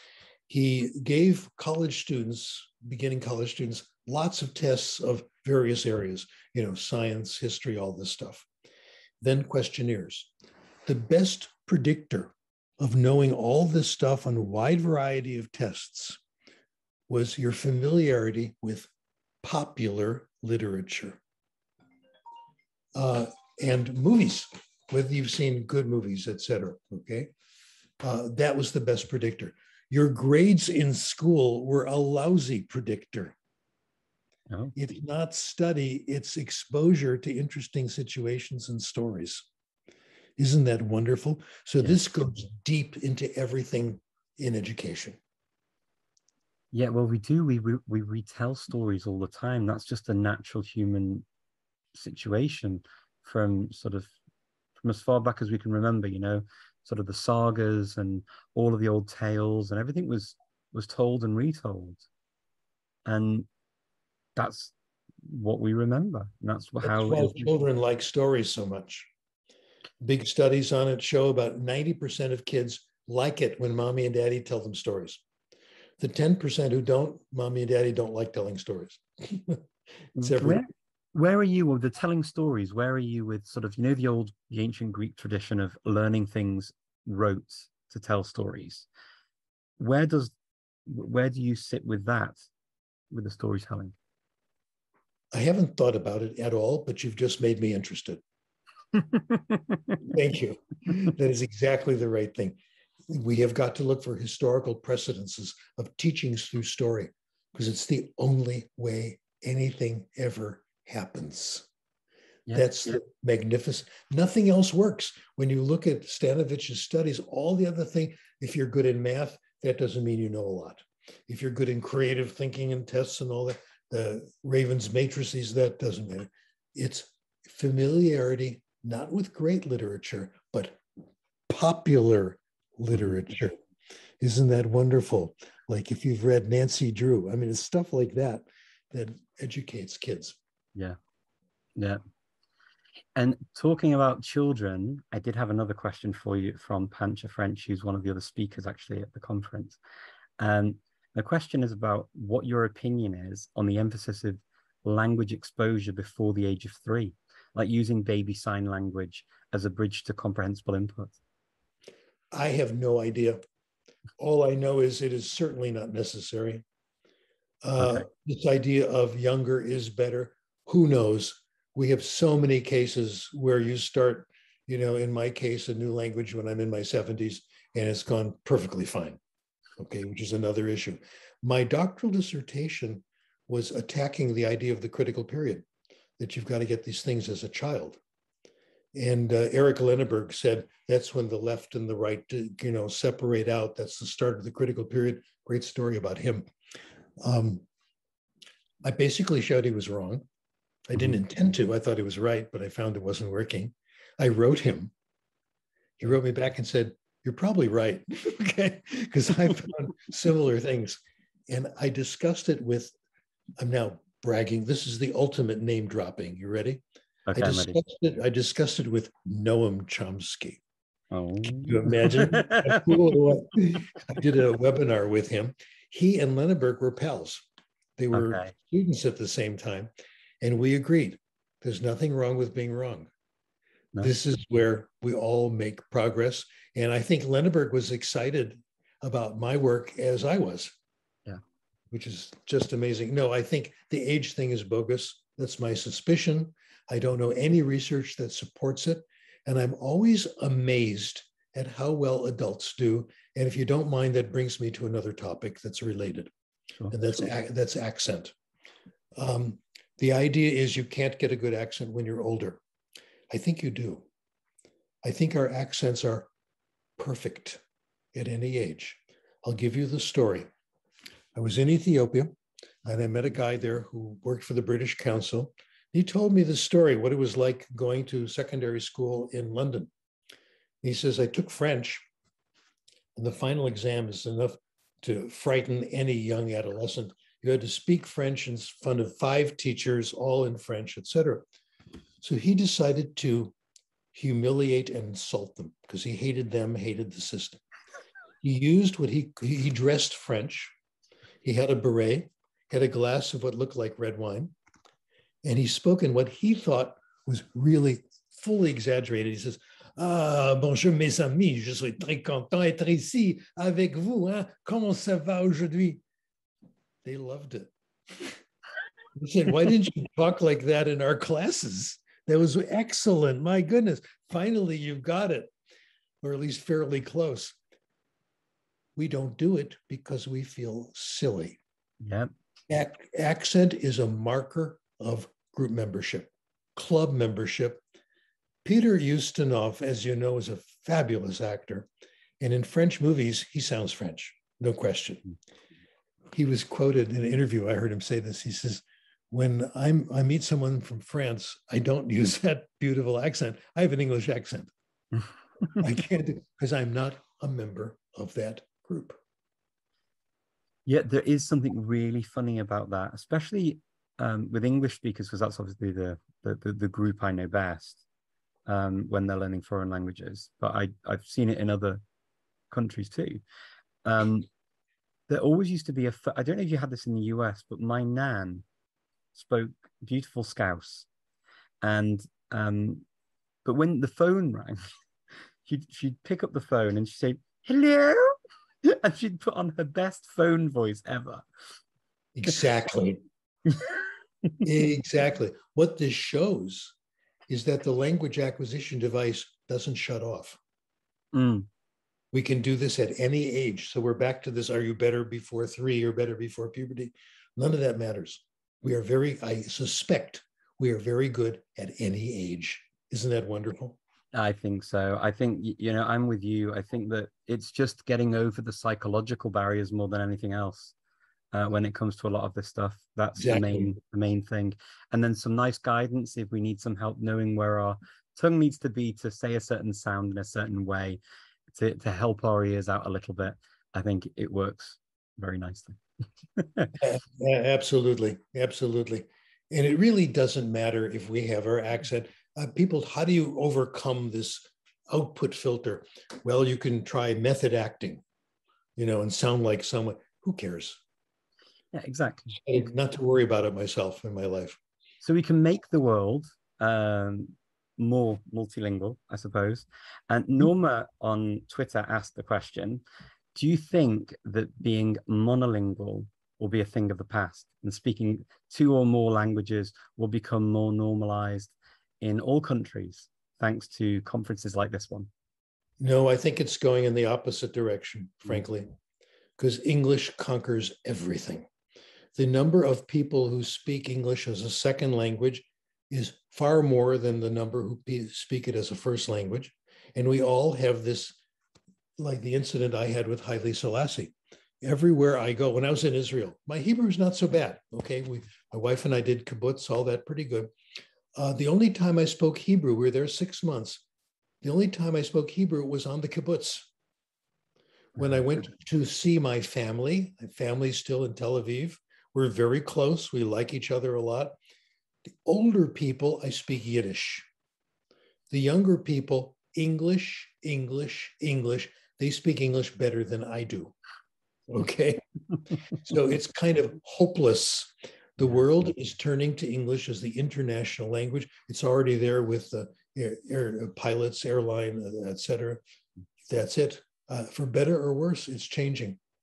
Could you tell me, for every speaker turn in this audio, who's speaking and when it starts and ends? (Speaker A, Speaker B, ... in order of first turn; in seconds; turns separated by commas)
Speaker A: 0.5-8.5, Speaker A: 9.2-10.3, Speaker A: 10.8-16.2, Speaker A: 17.1-18.9, Speaker A: 19.4-21.2, Speaker A: 22.9-27.3, Speaker A: 28.0-33.4, Speaker A: 34.8-39.5, Speaker A: 40.4-45.2, Speaker B: 46.7-51.2, Speaker B: 52.0-54.1, Speaker B: 54.8-62.1, Speaker B: 63.1-63.5, Speaker B: 64.4-67.5, Speaker A: 66.8-69.1, Speaker A: 70.0-75.2, Speaker A: 76.0-79.6, Speaker A: 80.2-80.6, Speaker B: 80.2-88.9, Speaker B: 89.8-90.3, Speaker B: 90.9-92.5, Speaker B: 93.1-94.0, Speaker A: 95.3-98.2, Speaker B: 98.9-100.0, Speaker A: 100.0-111.7, Speaker B: 112.5-113.0, Speaker A: 112.5-130.8, Speaker A: 131.5-133.6, Speaker A: 134.2-140.4, Speaker B: 141.8-142.0, Speaker B: 143.2-149.8, Speaker B: 150.4-161.2, Speaker A: 162.3-163.4, Speaker A: 164.2-166.6, Speaker A: 167.6-179.2, Speaker B: 167.8-168.1, Speaker A: 179.8-185.7, Speaker A: 186.2-188.0, Speaker A: 188.9-196.4, Speaker A: 197.2-197.6, Speaker A: 198.8-200.2, Speaker A: 200.9-204.9, Speaker A: 206.0-212.9, Speaker A: 213.6-216.8, Speaker B: 217.3-217.8, Speaker A: 217.4-220.6, Speaker B: 221.1-223.4, Speaker A: 221.4-227.4, Speaker A: 228.0-233.1, Speaker B: 228.1-228.5, Speaker A: 234.0-240.8, Speaker A: 241.9-256.3, Speaker A: 256.9-258.4, Speaker A: 259.2-262.6, Speaker A: 263.3-264.1, Speaker A: 265.0-266.3, Speaker A: 267.0-267.6, Speaker A: 268.1-270.5, Speaker A: 271.4-279.9, Speaker A: 280.8-282.0, Speaker A: 283.2-291.4, Speaker A: 292.2-293.5, Speaker A: 294.1-297.6, Speaker A: 298.4-300.7, Speaker A: 301.4-304.6, Speaker A: 305.4-316.0, Speaker A: 317.1-318.4, Speaker A: 319.2-325.5, Speaker A: 326.2-327.6, Speaker A: 328.9-331.6, Speaker B: 332.0-332.3, Speaker A: 332.7-337.8, Speaker A: 338.6-341.9, Speaker A: 342.4-345.3, Speaker A: 346.3-354.7, Speaker A: 355.8-359.2, Speaker B: 360.9-368.0, Speaker B: 368.7-372.0, Speaker B: 372.7-373.4, Speaker B: 374.1-374.5, Speaker B: 375.3-378.6, Speaker B: 379.3-381.1, Speaker B: 381.8-383.1, Speaker B: 383.6-384.8, Speaker B: 385.6-391.4, Speaker A: 392.4-393.2, Speaker A: 394.6-396.9, Speaker A: 397.5-400.6, Speaker B: 401.3-401.7, Speaker A: 402.3-414.0, Speaker B: 414.3-420.9, Speaker B: 421.5-436.0, Speaker A: 423.4-423.9, Speaker B: 436.6-437.0, Speaker A: 437.0-448.2, Speaker A: 449.0-451.0, Speaker B: 451.9-452.6, Speaker A: 452.5-454.8, Speaker B: 455.2-463.0, Speaker B: 463.6-475.3, Speaker A: 476.0-478.9, Speaker A: 479.6-481.7, Speaker A: 482.4-491.4, Speaker A: 492.2-500.7, Speaker A: 501.4-504.0, Speaker A: 504.6-506.9, Speaker A: 508.1-514.6, Speaker A: 515.5-517.5, Speaker A: 518.5-524.0, Speaker A: 524.7-525.2, Speaker A: 525.9-535.8, Speaker A: 536.5-539.2